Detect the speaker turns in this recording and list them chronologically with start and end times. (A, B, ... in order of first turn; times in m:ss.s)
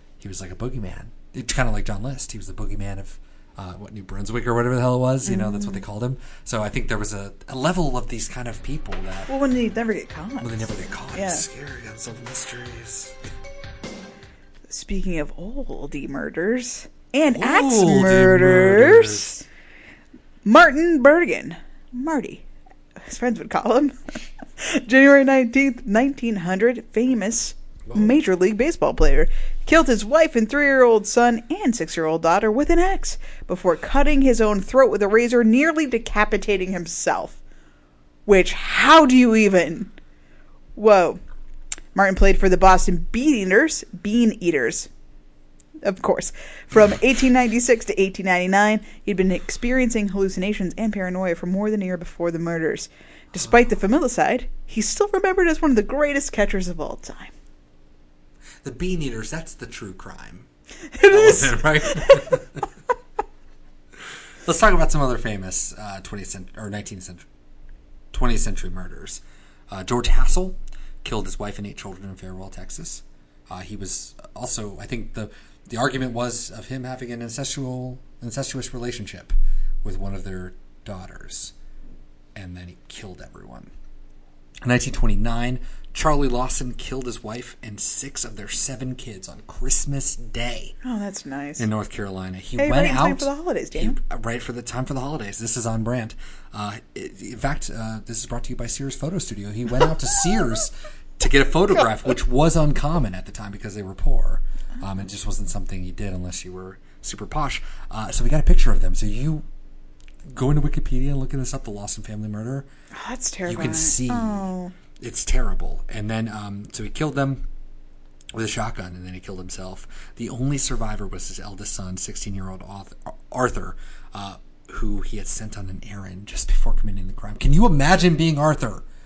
0:00.2-0:09.3 A
0:05.2-0:05.8 B
0:09.3-0:11.4 B
0:10.4-0:13.3 A
0:14.7-0:19.4 B
0:17.3-0:19.4 A
0:20.4-0:22.4 B
0:23.0-0:37.4 B
0:27.8-0:28.2 A
0:38.2-0:39.9 B
0:40.8-0:41.2 B
0:41.9-0:44.9 B
0:45.8-0:57.3 B
0:58.6-1:00.5 A
1:00.9-1:02.4 B
1:01.0-1:02.6 A
1:04.4-1:07.2 A
1:08.1-1:21.5 A
1:22.3-1:23.7 A
1:24.6-1:30.8 A
1:30.8-1:31.7 B
1:31.6-1:49.4 A
1:32.6-1:34.0 B
1:50.2-1:52.7 A
1:52.9-1:54.7 B
1:53.4-1:57.4 A
1:58.3-2:08.8 A